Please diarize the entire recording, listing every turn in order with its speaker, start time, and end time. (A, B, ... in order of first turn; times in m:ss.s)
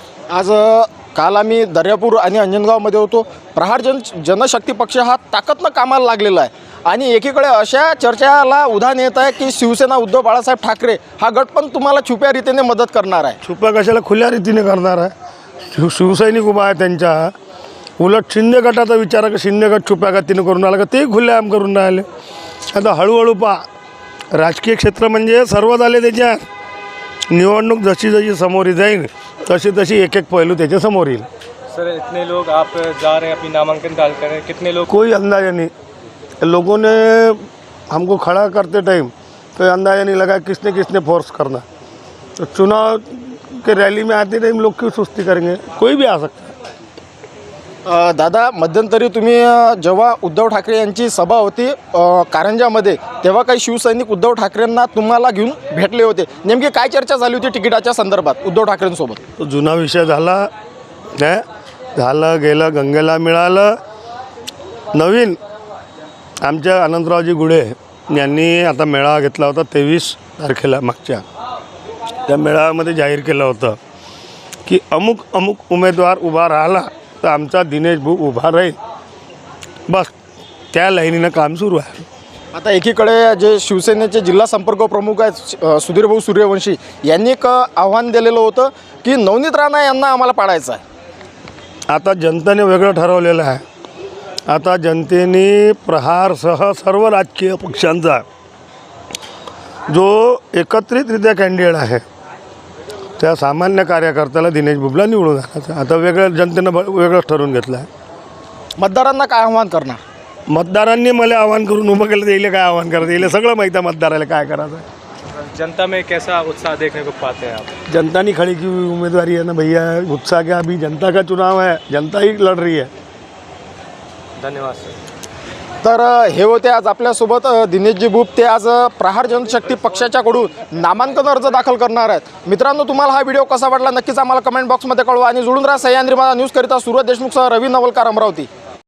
0:00.3-0:13.4 A
0:13.4-0:15.1 B
0:15.7-0:17.3 B
0:18.0-0:22.1 B
0:22.7-0:23.7 B
0:24.3-0:26.4 B
0:27.3-0:31.3 B
0:31.7-0:34.9 C
0:34.9-0:35.7 B
0:36.4-0:41.6 B
0:42.4-0:46.5 B
0:47.8-0:59.2 A
0:59.4-1:00.5 B
1:01.2-1:01.4 B
1:02.0-1:03.8 B
1:04.9-1:05.4 B
1:06.4-1:11.2 B
1:12.3-1:13.8 B
1:14.6-1:18.8 B
1:19.9-1:20.1 B
1:20.7-1:22.0 B
1:22.5-1:30.8 A
1:31.9-1:33.6 B
1:34.5-1:38.2 B
1:39.9-1:42.0 B
1:43.2-1:47.9 B
1:48.8-1:50.0 A
1:50.5-1:54.8 B
1:55.3-1:57.7 C
1:57.9-2:02.9 B
2:04.4-2:04.9 C
2:05.8-2:18.5 A